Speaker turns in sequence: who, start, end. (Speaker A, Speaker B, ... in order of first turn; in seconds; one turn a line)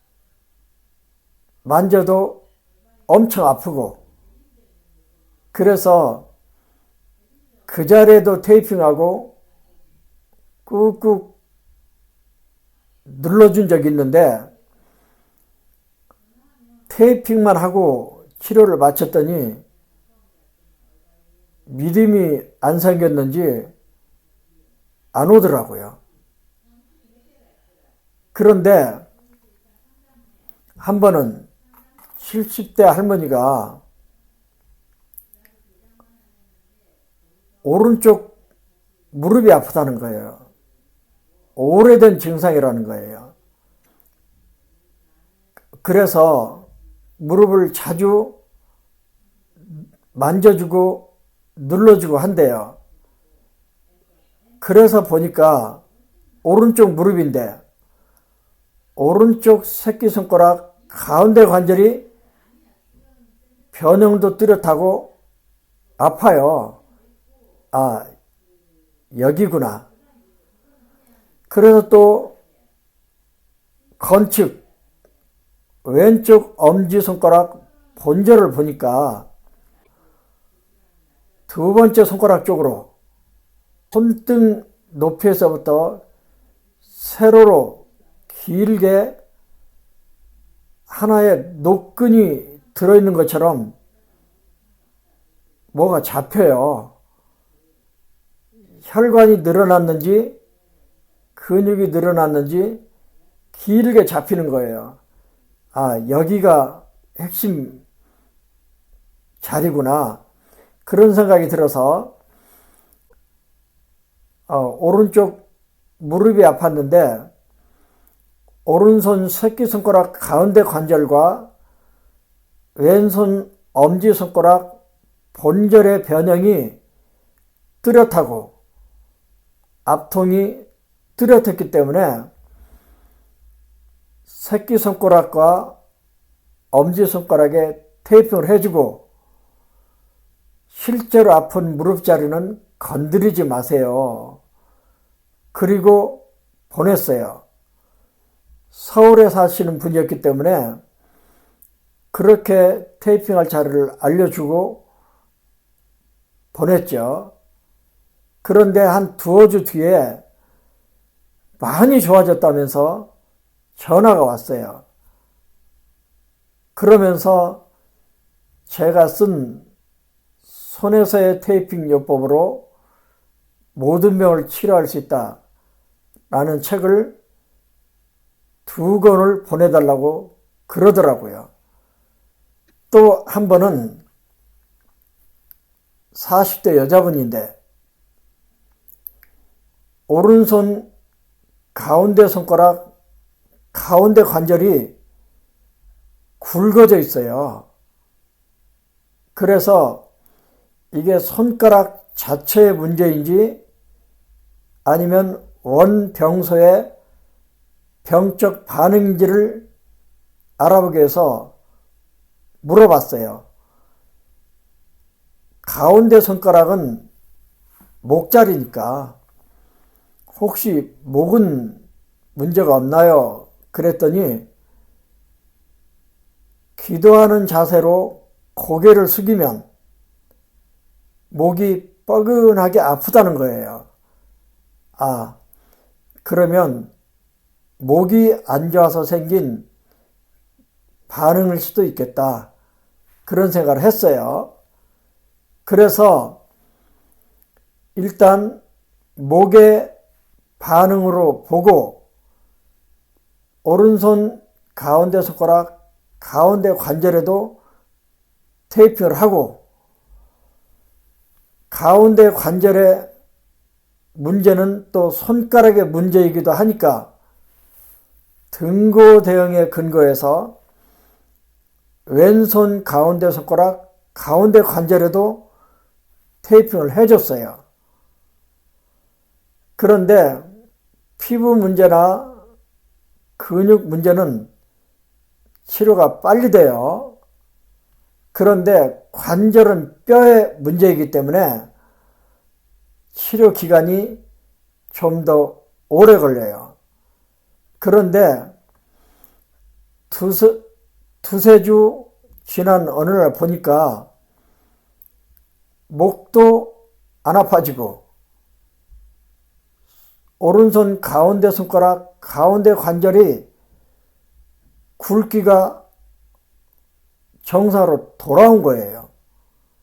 Speaker A: 1.6-2.4
Speaker A: 3.1-4.0
Speaker A: 5.5-6.2
Speaker A: 7.7-9.3
Speaker A: 10.7-11.3
Speaker A: 13.1-14.5
Speaker A: 16.9-19.6
Speaker A: 21.7-23.7
Speaker A: 25.1-26.0
Speaker A: 28.3-29.0
Speaker A: 30.8-31.5
Speaker A: 32.2-33.8
Speaker A: 37.6-38.3
Speaker A: 39.1-40.4
Speaker A: 41.5-43.3
Speaker A: 45.8-46.7
Speaker A: 47.2-48.3
Speaker A: 50.1-52.8
Speaker A: 54.6-55.8
Speaker A: 56.4-57.6
Speaker A: 59.0-62.0
Speaker A: 63.7-65.1
Speaker A: 66.0-66.8
Speaker A: 67.7-68.1
Speaker A: 69.1-69.8
Speaker A: 71.5-72.3
Speaker A: 74.0-74.6
Speaker A: 75.8-79.3
Speaker A: 81.5-82.9
Speaker A: 83.9-86.0
Speaker A: 87.0-89.2
Speaker A: 90.9-93.7
Speaker A: 95.7-96.9
Speaker A: 98.9-100.3
Speaker A: 101.3-102.8
Speaker A: 103.5-105.0
Speaker A: 105.7-107.8
Speaker A: 109.4-110.2
Speaker A: 110.8-112.1
Speaker A: 114.5-115.4
Speaker A: 116.0-117.3
Speaker A: 118.6-121.5
Speaker A: 122.8-124.8
Speaker A: 125.3-126.8
Speaker A: 127.8-128.5
Speaker A: 129.8-130.7
Speaker A: 131.2-132.3
Speaker A: 134.3-135.7
Speaker A: 136.7-139.0
Speaker A: 140.7-144.4
Speaker A: 145.5-147.4
Speaker A: 148.7-150.8
Speaker A: 152.1-154.8
Speaker A: 156.5-157.3
Speaker A: 158.4-160.2
Speaker A: 161.6-163.1
Speaker A: 163.8-164.8
Speaker A: 166.8-167.6
Speaker A: 168.7-169.6
Speaker A: 170.5-172.6
Speaker A: 173.7-175.4
Speaker A: 176.3-177.1
Speaker A: 178.7-181.5
Speaker A: 182.9-184.0
Speaker A: 186.1-187.5
Speaker A: 190.1-190.9
Speaker A: 191.7-192.9
Speaker A: 193.7-194.9
Speaker A: 196.4-197.7
Speaker A: 199.3-200.0
Speaker A: 200.9-203.6
Speaker A: 204.8-206.9
Speaker A: 208.0-209.7
Speaker A: 210.6-211.5
Speaker A: 212.6-213.4
Speaker A: 215.6-217.1
Speaker A: 218.0-219.2
Speaker A: 220.3-221.8
Speaker A: 222.3-224.4
Speaker A: 226.8-229.7
Speaker A: 231.3-233.9
Speaker A: 235.0-235.4
Speaker A: 236.2-236.9
Speaker A: 237.8-239.6
Speaker A: 241.1-242.5
Speaker A: 243.2-244.5
Speaker A: 245.7-246.4
Speaker A: 247.9-248.6
Speaker A: 249.2-249.9
Speaker A: 250.6-252.0
Speaker A: 253.6-257.6
Speaker A: 258.7-259.6
Speaker A: 261.7-263.1
Speaker A: 264.1-267.1
Speaker A: 268.5-270.5
Speaker A: 272.1-275.4
Speaker A: 276.4-277.6
Speaker A: 279.8-280.4
Speaker A: 281.2-282.4
Speaker A: 283.4-284.5
Speaker A: 285.6-287.1
Speaker A: 288.3-291.7
Speaker A: 293.1-294.2
Speaker A: 294.9-296.7
Speaker A: 297.8-298.5
Speaker A: 300.1-300.6
Speaker A: 301.2-304.1
Speaker A: 305.9-308.0
Speaker A: 310.4-313.5
Speaker A: 315.0-315.8
Speaker A: 317.4-319.1